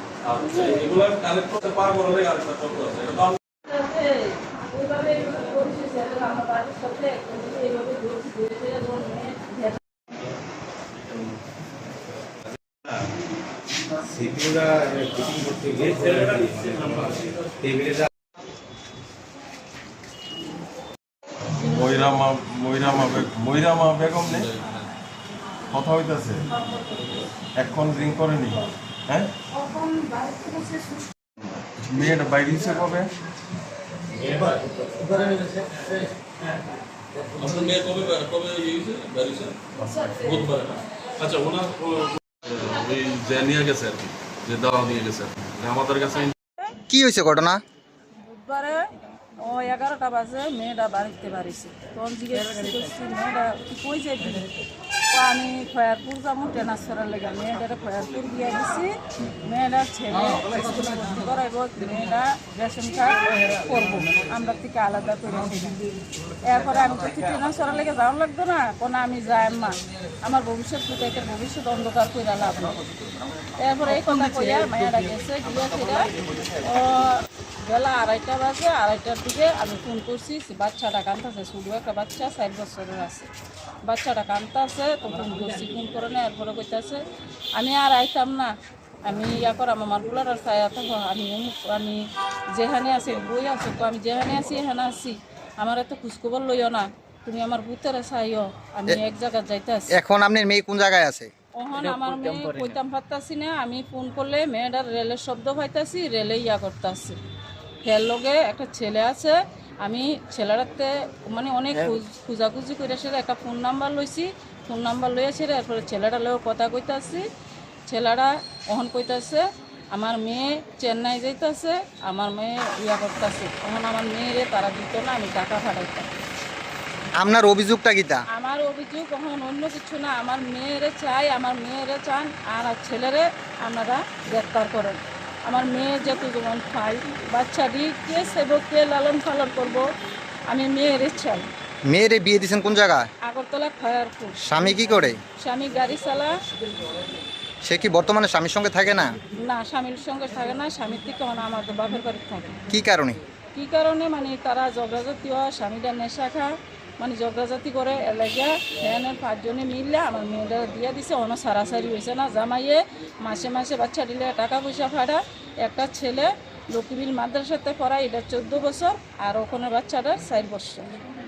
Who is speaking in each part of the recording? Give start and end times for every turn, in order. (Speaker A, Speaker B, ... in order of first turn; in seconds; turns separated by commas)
Speaker A: 0.2-3.4, Speaker B: 3.6-9.8, Speaker C: 14.0-18.1, Speaker A: 15.9-17.4, Speaker D: 21.6-24.5, Speaker A: 24.1-24.9, Speaker D: 25.7-26.4, Speaker D: 27.5-29.3, Speaker B: 29.6-30.9, Speaker D: 31.8-33.1, Speaker A: 34.2-36.0, Speaker A: 37.2-46.3, Speaker E: 46.9-47.6, Speaker B: 48.2-48.9, Speaker B: 49.4-54.5, Speaker B: 55.1-65.8, Speaker B: 66.3-83.3, Speaker B: 83.8-88.5, Speaker B: 89.0-99.9, Speaker E: 99.9-101.3, Speaker B: 101.5-107.2, Speaker B: 107.8-117.2, Speaker B: 117.9-126.1, Speaker E: 127.2-128.2, Speaker B: 128.3-139.9, Speaker B: 140.5-141.5, Speaker E: 141.9-143.1, Speaker B: 143.2-144.4, Speaker E: 144.4-145.2, Speaker B: 145.4-146.4, Speaker E: 147.6-149.1, Speaker B: 149.4-152.6, Speaker E: 152.7-153.2, Speaker B: 153.5-170.9